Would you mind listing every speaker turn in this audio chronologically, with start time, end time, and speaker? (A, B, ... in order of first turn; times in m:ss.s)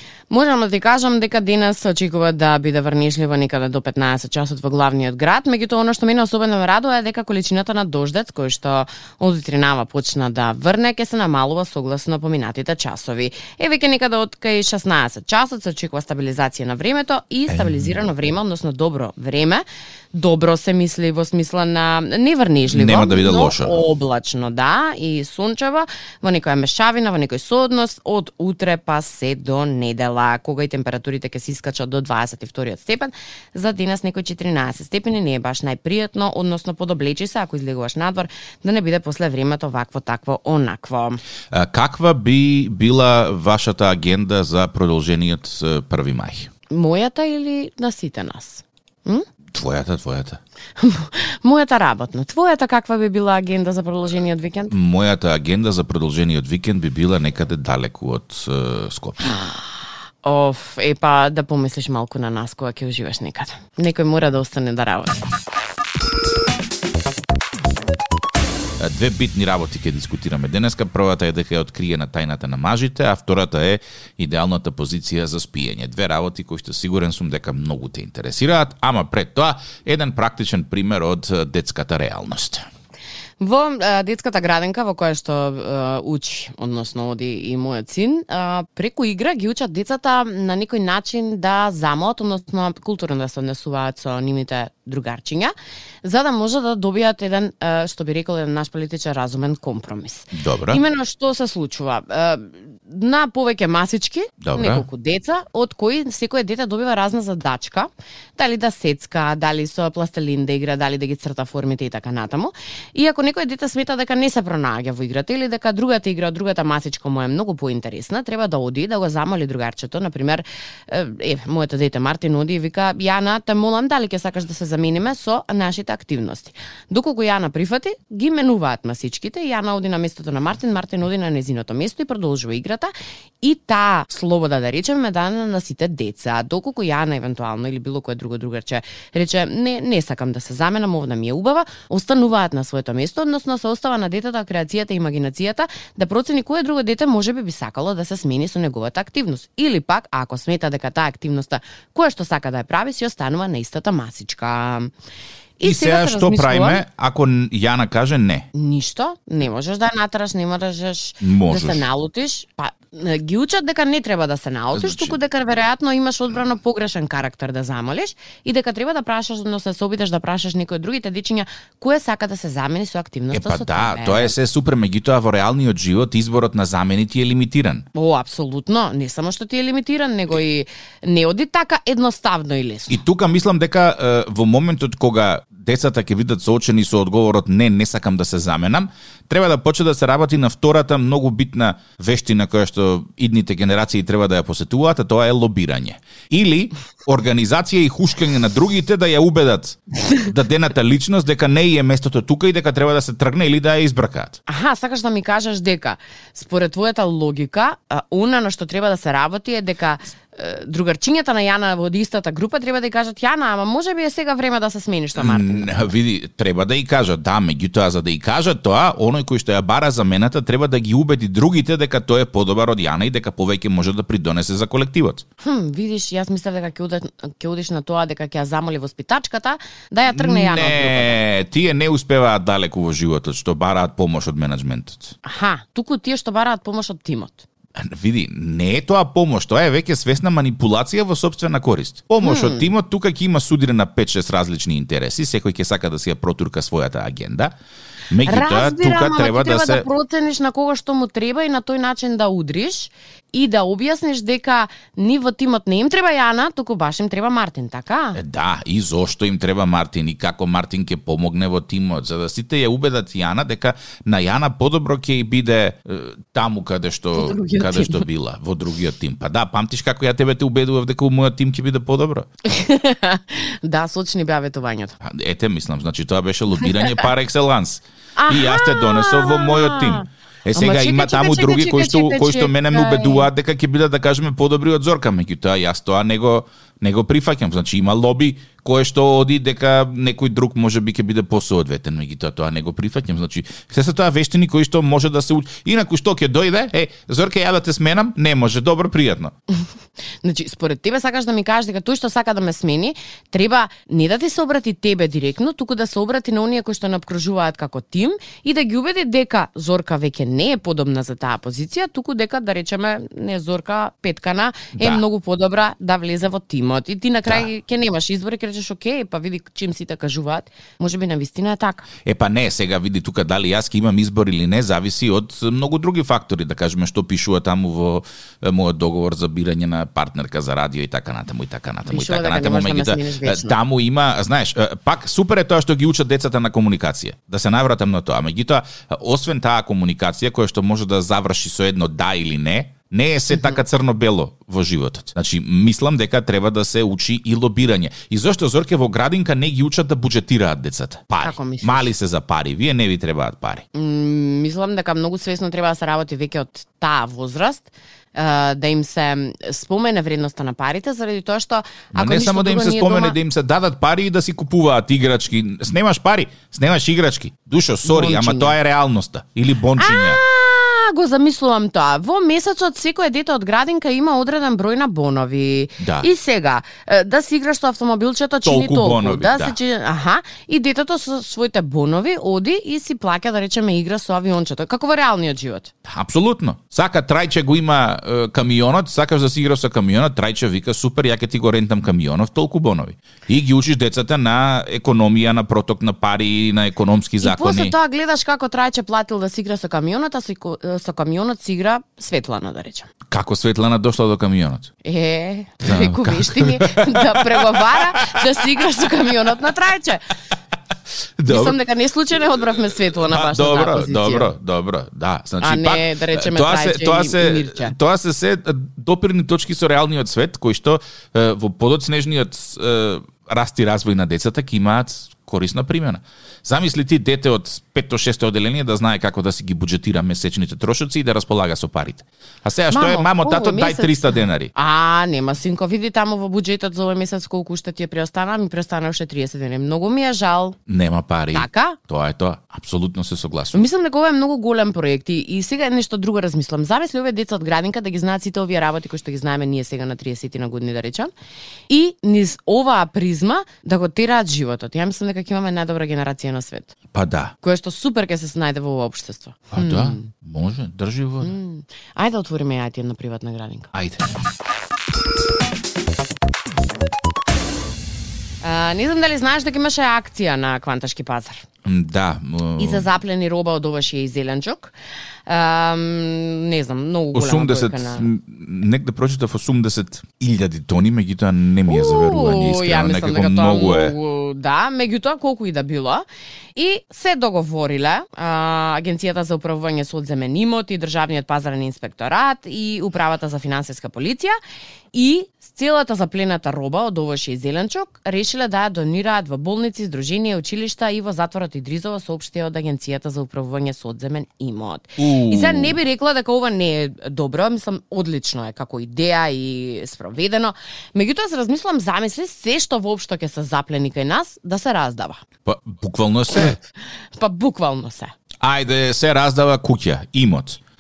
0:00.3-0:41.2 A
0:17.5-0:18.0 B
0:22.7-0:23.8 B
0:41.5-0:46.5 B
0:46.7-0:49.2 A
0:49.5-0:50.4 B
0:50.8-0:54.7 A
0:54.7-0:59.3 B
0:59.2-1:05.3 A
1:08.8-1:22.6 B
1:23.4-2:34.9 A
1:40.3-1:40.8 B
1:44.4-1:44.9 B
2:35.6-2:36.8 A
2:35.6-2:38.5 B
2:38.5-2:54.4 A
2:41.2-2:41.8 B
2:44.7-2:45.2 B
2:53.3-2:57.8 B
2:57.9-3:03.0 A
3:02.9-3:24.4 B
3:24.5-3:35.9 A
3:35.2-3:45.2 B
3:45.4-3:51.2 A
3:50.1-3:55.2 B
3:55.2-3:57.5 A
3:57.8-4:07.5 B
4:02.2-4:02.7 A
4:08.1-4:09.9 B
4:08.2-4:18.2 A
4:18.1-4:32.3 B
4:27.1-4:28.0 A
4:32.5-4:35.0 A
4:35.0-4:59.3 B
4:38.2-4:43.3 A
5:00.2-5:21.9 A
5:14.8-5:15.0 B
5:22.0-5:53.6 B
5:31.9-5:33.6 A
5:43.3-5:43.6 A
5:51.2-5:51.9 A
5:53.7-6:03.2 A
6:01.9-6:10.2 B
6:07.8-6:08.6 A
6:09.8-6:25.7 A
6:15.8-6:16.1 B
6:18.4-6:19.6 B
6:25.9-6:37.8 B
6:37.2-6:42.9 A
6:43.1-6:44.7 B
6:44.8-6:50.1 A
6:45.6-6:48.2 B
6:51.2-6:51.6 B
6:51.3-6:54.3 A
6:53.0-7:14.5 B
6:55.4-6:57.8 A
7:12.7-7:20.6 A
7:20.7-7:23.7 B
7:21.3-7:21.8 A
7:23.5-7:31.1 A
7:31.7-7:36.7 A
7:36.9-7:37.3 B
7:37.4-7:40.1 A
7:39.5-7:41.4 B
7:41.2-7:43.7 A
7:43.7-7:44.0 B
7:48.4-7:51.4 A
7:51.6-7:52.9 B
7:52.6-7:54.7 A
7:55.3-7:58.1 A
7:57.1-8:04.0 B
8:01.7-8:14.4 A
8:14.9-8:35.2 A
8:25.0-8:25.8 B
8:35.4-8:36.6 B
8:37.2-8:38.1 A
8:38.4-8:40.6 B